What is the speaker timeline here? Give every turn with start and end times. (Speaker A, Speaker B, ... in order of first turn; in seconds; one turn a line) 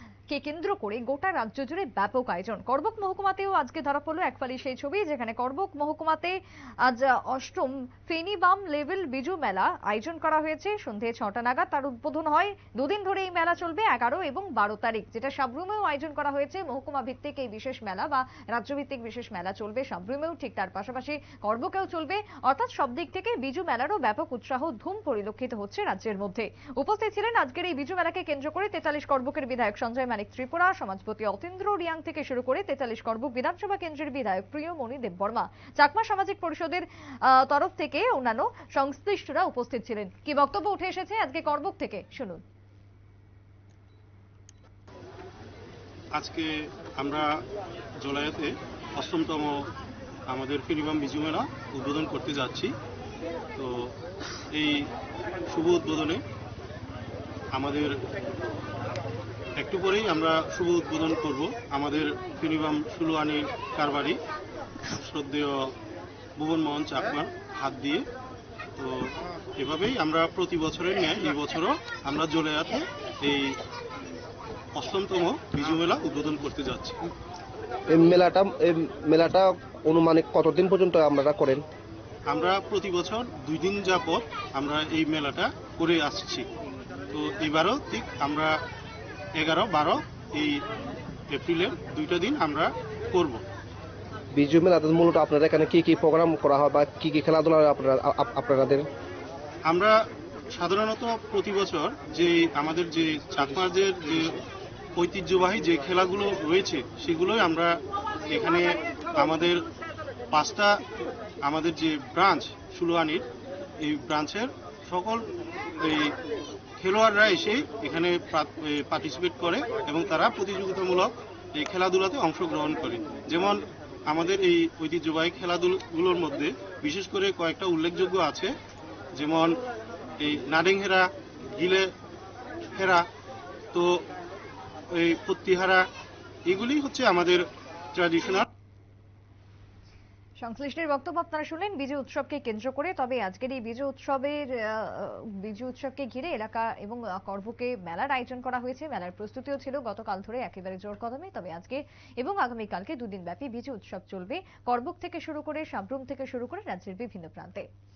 Speaker A: 0.3-42.4
Speaker B: 46.1-47.4
Speaker B: 48.0-49.6
Speaker B: 50.3-52.7
Speaker B: 53.5-53.9
Speaker B: 54.5-54.9
Speaker B: 55.5-56.2
Speaker B: 57.5-58.0
Speaker B: 59.6-64.2
Speaker B: 64.9-65.7
Speaker B: 66.4-68.0
Speaker B: 68.8-73.6
Speaker B: 74.7-77.0
Speaker C: 77.9-81.6
Speaker B: 82.3-86.5
Speaker B: 87.1-88.6
Speaker B: 89.3-90.6
Speaker B: 91.3-93.4
Speaker C: 94.3-98.9
Speaker B: 99.7-100.0
Speaker B: 100.5-104.4
Speaker B: 105.0-107.7
Speaker B: 108.3-109.6
Speaker B: 110.3-110.8
Speaker B: 111.4-113.2
Speaker B: 113.8-115.2
Speaker B: 115.8-116.1
Speaker B: 116.8-128.5
Speaker B: 129.1-129.6
Speaker B: 130.2-131.9
Speaker B: 132.7-133.0
Speaker B: 133.7-134.0
Speaker B: 134.9-135.8
Speaker B: 136.5-138.5
Speaker A: 140.4-157.7